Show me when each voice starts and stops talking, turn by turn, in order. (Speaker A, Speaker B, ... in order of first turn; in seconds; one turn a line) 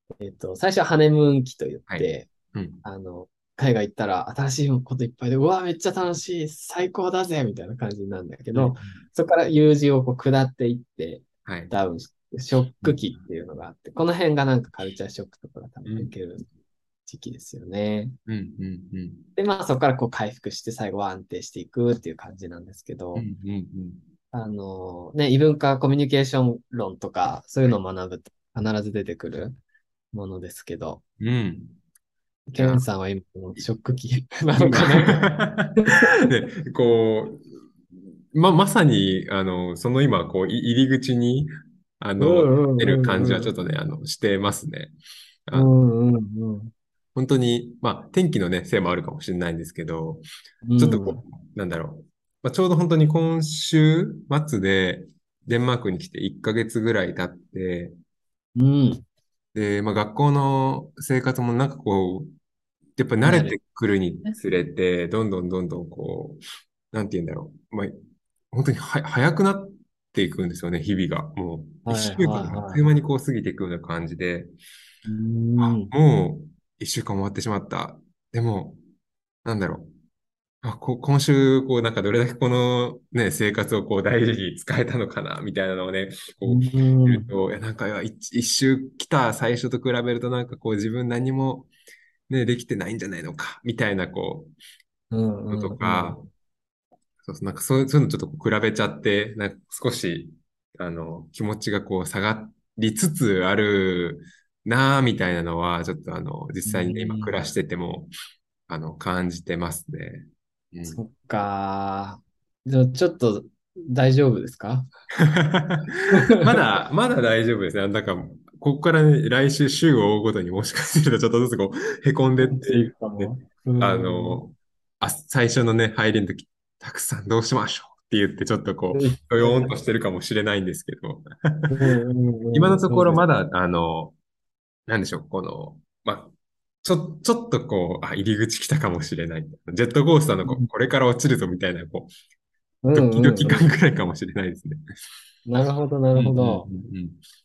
Speaker A: 0.2-2.3
Speaker B: 1.9-2.8
Speaker A: 2.8-16.5
Speaker B: 8.5-9.0
Speaker B: 11.5-11.7
Speaker B: 12.8-13.2
Speaker B: 15.9-16.1
Speaker A: 17.1-18.2
Speaker B: 18.3-19.3
Speaker A: 19.4-23.3
Speaker B: 23.1-24.1
Speaker A: 24.3-29.6
Speaker A: 30.1-31.0
Speaker B: 31.2-31.8
Speaker A: 32.5-36.1
Speaker B: 32.6-32.8
Speaker B: 34.5-37.4
Speaker B: 38.3-44.9
Speaker A: 42.2-43.5
Speaker B: 45.5-45.7
Speaker A: 45.5-46.7
Speaker B: 47.1-50.2
Speaker A: 50.6-51.2
Speaker B: 50.8-58.0
Speaker A: 58.6-59.0
Speaker B: 59.5-62.3
Speaker B: 63.0-66.4
Speaker A: 63.2-63.6
Speaker B: 66.9-68.0
Speaker B: 68.5-74.5
Speaker A: 71.9-72.8
Speaker A: 75.0-75.9
Speaker B: 75.6-78.8
Speaker B: 79.5-79.9
Speaker B: 80.6-91.7
Speaker A: 86.4-87.3
Speaker B: 92.3-94.5
Speaker A: 95.1-96.3
Speaker B: 95.5-96.2
Speaker B: 97.2-108.1
Speaker A: 106.7-107.4
Speaker B: 108.7-111.0
Speaker A: 110.9-114.9
Speaker B: 115.2-131.7
Speaker A: 116.1-116.5
Speaker A: 122.4-124.5
Speaker A: 128.9-129.8
Speaker A: 131.7-133.2
Speaker B: 132.5-134.2
Speaker B: 134.9-136.3
Speaker B: 136.8-142.1
Speaker A: 140.4-140.7
Speaker A: 142.8-143.7
Speaker B: 142.9-144.8
Speaker A: 145.5-146.7
Speaker B: 146.2-147.2